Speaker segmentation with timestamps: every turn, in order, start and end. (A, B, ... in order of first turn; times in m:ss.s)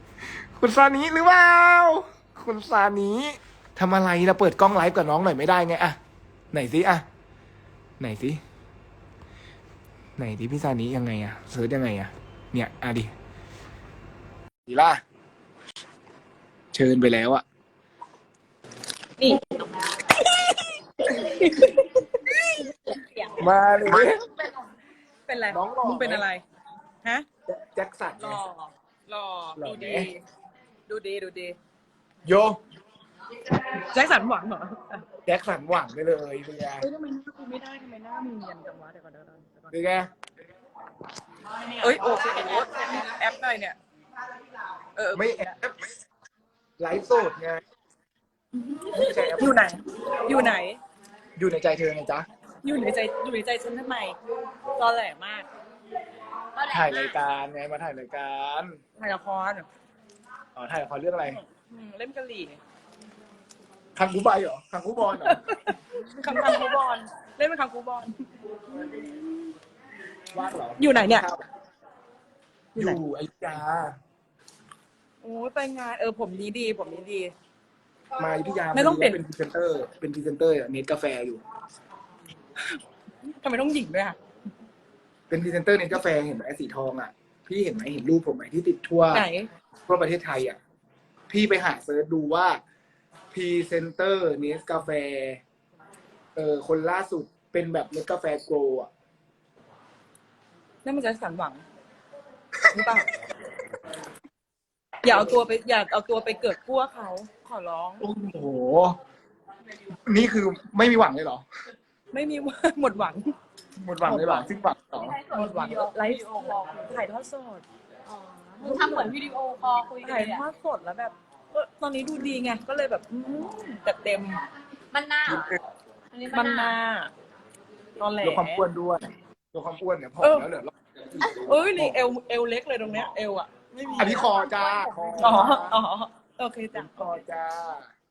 0:00.3-0:06.0 A
0:06.5-0:07.0 A
0:08.0-0:08.4 A
0:10.2-0:13.1 A
0:14.7-0:15.0 A
0:16.7-0:17.4 A
0:19.2-0:19.4 B
0:20.1-0:23.4 B
0:23.4-0:24.2 A
0:25.3-0:26.4 B
0:25.5-0:26.2 A
0:27.5-0:28.4 A
0:28.2-0:30.2 B
0:29.6-0:30.1 A
0:30.9-0:31.6 B
0:32.2-0:32.6 A
0:33.7-0:35.0 B
0:35.2-0:36.9 A
0:36.8-0:39.7 B
0:39.7-0:40.1 A
0:41.8-0:43.8 B
0:45.0-0:45.5 B
0:45.1-0:45.8 A
0:46.8-0:47.6 A
0:48.6-0:50.8 B
0:48.9-0:49.6 A
0:51.4-0:52.3 A
0:52.6-0:54.2 B
0:54.7-0:55.5 B
0:56.6-0:56.9 C
0:56.7-0:58.8 A
0:59.0-0:59.7 B
1:00.6-1:01.4 A
1:01.2-1:02.6 B
1:04.0-1:05.4 A
1:05.1-1:08.2 B
1:08.8-1:09.5 B
1:10.3-1:11.4 A
1:10.8-1:11.3 B
1:12.8-1:14.0 A
1:15.2-1:17.3 B
1:18.2-1:21.4 A
1:18.7-1:19.2 B
1:23.4-1:24.2 B
1:25.3-1:29.3 A
1:29.1-1:29.5 B
1:29.9-1:30.6 A
1:31.3-1:32.6 A
1:33.3-1:35.4 A
1:36.4-1:38.9 A
1:40.8-1:41.6 B
1:42.7-1:43.1 B
1:45.0-1:48.0 B
1:48.0-1:49.0 A
1:50.0-1:51.4 A
1:52.1-1:53.3 B
1:53.8-1:55.2 A
1:54.0-1:54.5 B
1:55.0-1:56.8 C
1:55.2-1:57.6 B
1:58.1-2:00.4 C
1:58.6-1:59.1 B
2:00.0-2:04.4 B
2:04.9-2:05.6 C
2:05.3-2:05.6 A
2:06.1-2:06.8 C
2:06.3-2:07.1 B
2:08.0-2:08.6 B
2:08.2-2:12.0 A
2:10.2-2:10.5 B
2:11.2-2:11.5 C
2:11.3-2:14.3 B
2:14.0-2:15.7 C
2:14.0-2:15.8 A
2:15.2-2:17.1 B
2:16.7-2:17.9 A